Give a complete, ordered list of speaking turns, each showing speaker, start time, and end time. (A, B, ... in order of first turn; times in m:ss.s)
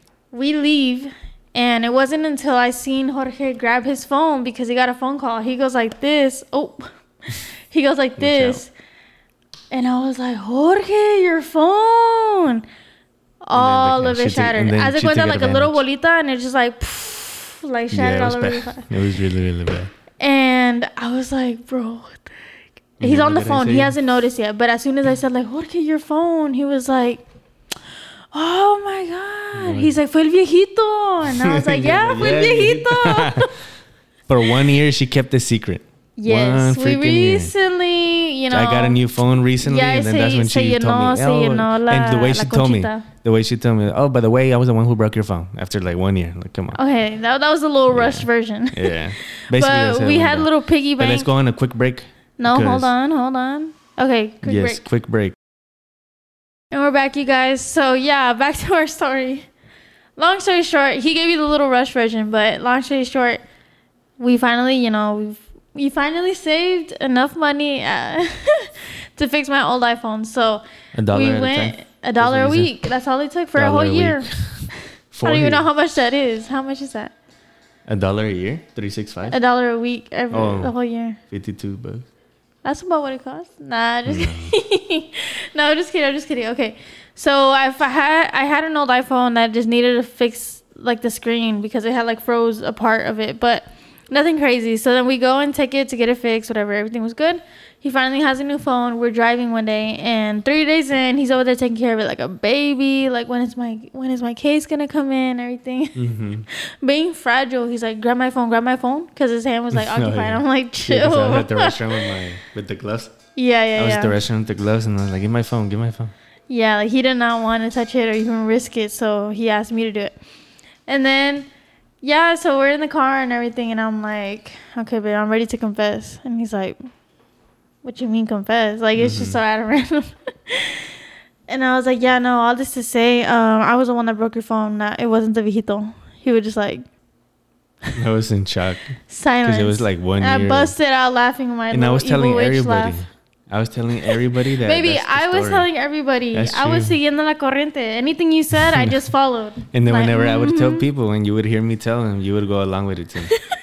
0:00.3-0:08.7 A
0:08.2-0:08.6 B
0:09.7-0:12.6 A
0:13.4-0:18.9 A
0:13.5-0:15.8 B
0:17.9-0:19.9 B
0:20.2-0:22.4 A
0:23.0-0:27.2 A
0:23.0-0:23.9 B
0:28.3-0:33.5 A
0:29.5-0:29.9 B
0:31.3-0:33.5 B
0:34.3-0:37.5 B
0:36.2-0:39.0 A
0:38.5-0:46.8 B
0:39.6-0:43.1 A
0:46.7-0:51.3 A
0:47.9-0:52.9 B
0:52.4-0:54.8 A
0:54.4-0:55.4 B
0:56.7-0:59.5 A
1:00.2-1:03.4 A
1:04.2-1:14.3 A
1:10.9-1:12.7 B
1:13.5-1:15.7 B
1:15.2-1:17.1 A
1:17.9-1:19.4 B
1:19.3-1:21.2 A
1:20.3-1:20.7 B
1:21.3-1:22.1 B
1:22.6-1:52.1 A
1:24.0-1:24.5 B
1:45.9-1:46.5 B
1:49.7-1:53.1 B
1:53.4-1:54.1 A
1:53.7-1:56.1 B
1:56.5-2:00.2 A
2:00.9-2:01.5 A
2:02.0-2:06.8 A
2:07.8-2:10.9 A
2:09.0-2:09.4 B
2:11.5-2:16.8 A
2:17.9-2:20.7 B
2:19.1-2:23.0 A
2:21.7-2:25.7 B
2:24.6-2:30.8 A
2:26.3-2:27.0 B
2:28.6-2:29.0 B
2:29.7-2:33.3 B